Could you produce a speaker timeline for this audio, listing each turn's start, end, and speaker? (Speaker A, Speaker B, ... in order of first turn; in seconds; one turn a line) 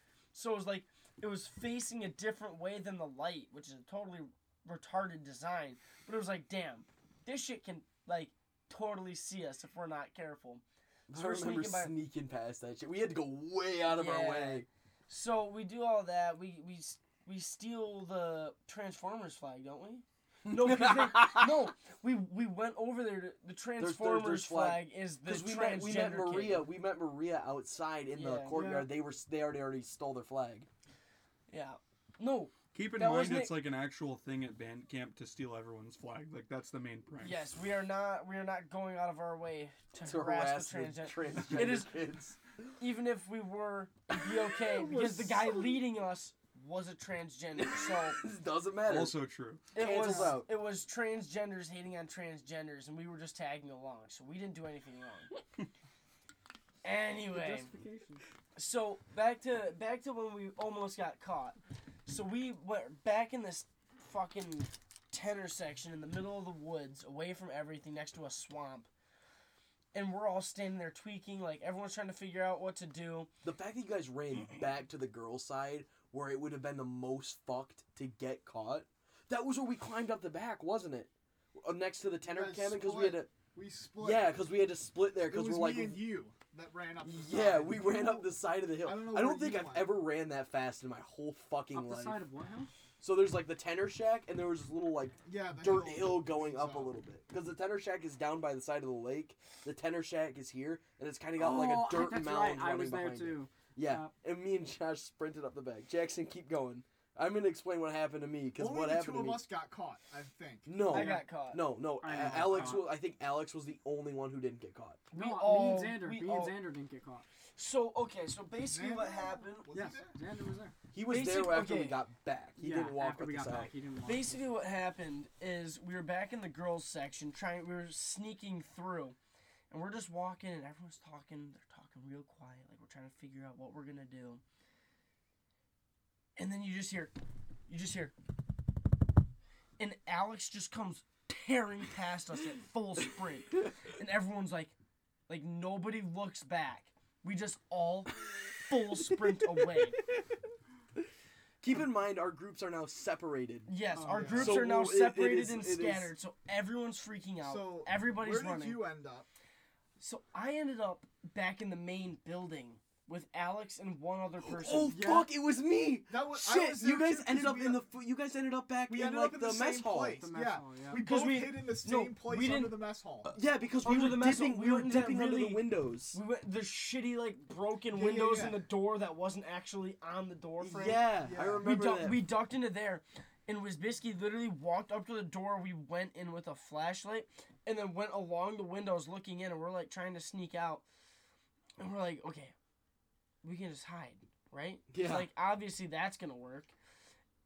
Speaker A: 0.3-11.9
Speaker B: 11.1-14.7
Speaker A: 13.9-26.7
Speaker B: 20.5-21.5
Speaker B: 23.8-30.7
Speaker A: 28.1-28.6
Speaker C: 28.5-28.9
Speaker A: 31.5-33.6
Speaker D: 32.7-37.4
Speaker A: 37.2-42.0
Speaker B: 40.0-42.4
Speaker A: 42.8-48.2
Speaker B: 44.1-45.6
Speaker E: 45.0-45.2
Speaker B: 47.6-49.2
Speaker D: 48.9-49.8
Speaker B: 49.7-50.5
Speaker A: 49.8-55.4
Speaker E: 50.0-50.3
Speaker A: 56.8-57.7
Speaker E: 57.2-58.2
Speaker A: 58.6-68.9
Speaker A: 69.9-73.3
Speaker B: 73.4-83.3
Speaker C: 82.2-84.3
Speaker B: 84.0-86.1
Speaker C: 85.3-90.0
Speaker B: 87.0-92.2
Speaker E: 91.7-92.7
Speaker B: 93.0-109.4
Speaker C: 95.2-97.0
Speaker E: 101.4-104.1
Speaker C: 108.6-110.7
Speaker B: 110.7-115.0
Speaker A: 110.9-111.6
Speaker E: 110.9-111.2
Speaker E: 112.0-112.9
Speaker E: 115.1-117.3
Speaker A: 115.1-116.6
Speaker A: 117.6-119.7
Speaker C: 118.7-120.2
Speaker E: 119.7-120.8
Speaker B: 120.9-123.7
Speaker A: 121.1-122.0
Speaker E: 122.6-124.5
Speaker A: 124.0-129.2
Speaker A: 129.7-134.4
Speaker A: 136.4-137.2
Speaker A: 137.7-138.1
Speaker A: 139.8-144.7
Speaker A: 145.3-150.0
Speaker B: 151.6-153.8
Speaker A: 153.7-158.8
Speaker E: 153.9-154.4
Speaker C: 154.0-154.6
Speaker B: 154.4-156.1
Speaker C: 157.4-159.3
Speaker A: 160.0-164.9
Speaker B: 164.4-170.2
Speaker E: 164.9-165.3
Speaker C: 166.1-167.8
Speaker C: 168.9-173.3
Speaker E: 170.2-171.0
Speaker A: 170.9-172.8
Speaker B: 173.3-176.2
Speaker A: 173.8-190.8
Speaker C: 177.9-178.6
Speaker B: 180.6-182.2
Speaker C: 181.2-181.7
Speaker A: 191.8-192.5
Speaker A: 193.4-196.7
Speaker B: 194.9-195.3